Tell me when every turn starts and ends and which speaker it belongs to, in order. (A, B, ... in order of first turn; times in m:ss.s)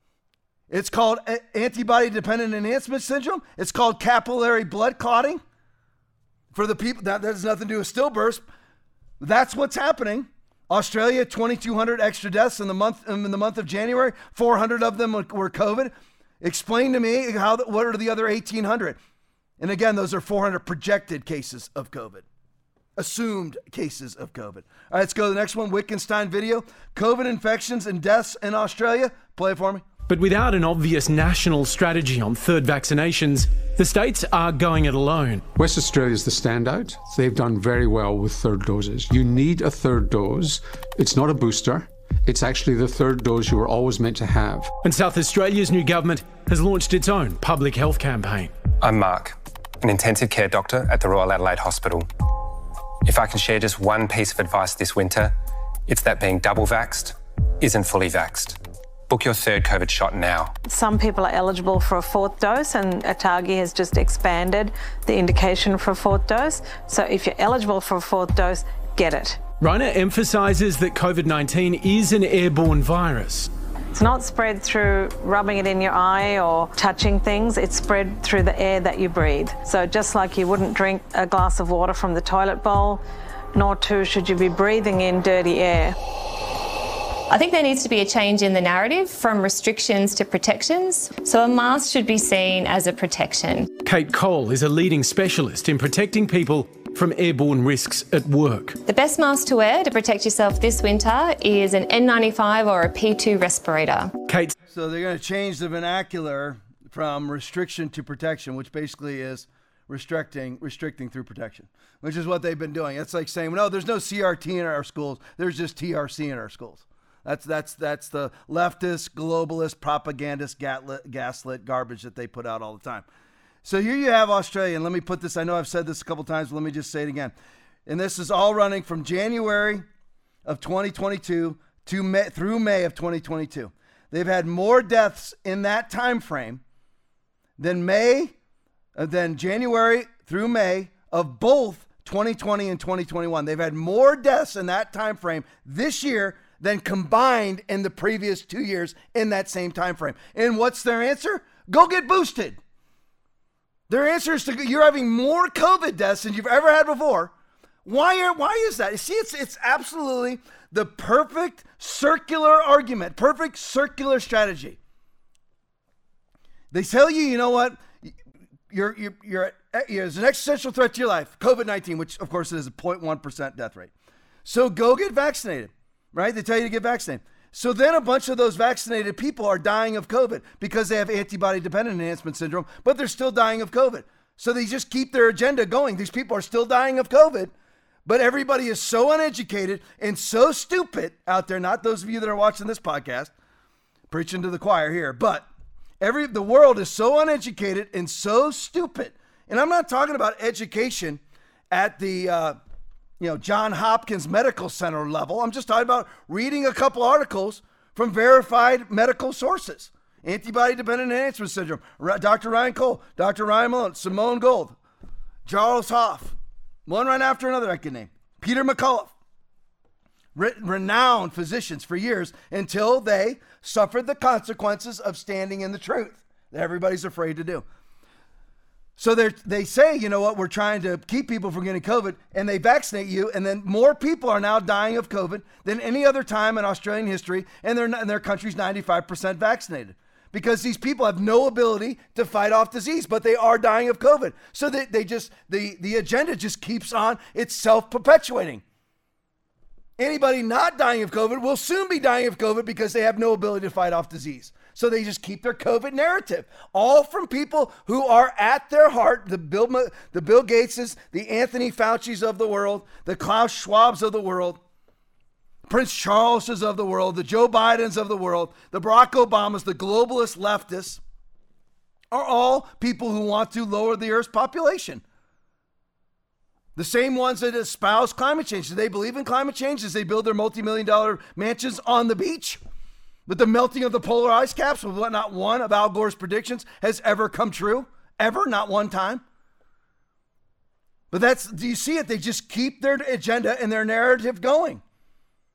0:00.7-0:05.4 A
0:06.5-0:08.4 A
0:09.2-0:19.0 A
0:19.6-0:22.2 A
0:23.0-0:29.8 A
0:30.1-0:35.4 B
0:35.6-0:44.6 C
0:44.8-0:48.5 B
0:48.8-0:52.1 D
0:53.0-0:55.3 D
0:55.9-1:00.5 D
1:00.6-1:09.4 E
1:09.6-1:13.5 B
1:13.9-1:23.0 E
1:23.5-1:26.0 E
1:27.3-1:33.7 F
1:33.8-1:38.8 B
1:38.8-1:44.2 F
1:44.2-1:44.5 B
1:44.7-2:03.0 A
2:03.6-2:07.3 A
2:07.8-2:09.8 A
2:10.4-2:16.6 A
2:17.6-2:18.3 A
2:19.0-2:32.6 A
2:33.9-2:37.3 A
2:37.8-2:44.8 A
2:46.7-2:48.1 A
2:48.7-2:53.9 A
2:54.4-3:07.5 A
3:08.0-3:13.3 A
3:14.1-3:15.4 A
3:16.0-3:22.6 A
3:23.2-3:34.8 A
3:35.4-3:36.3 A
3:36.9-3:39.1 A
3:40.4-3:47.6 A
3:49.0-4:08.6 A
4:10.0-4:24.6 A
4:25.7-4:31.0 A
4:32.1-4:35.0 A
4:36.8-4:42.6 A
4:43.3-4:49.2 A
4:51.1-4:54.8 A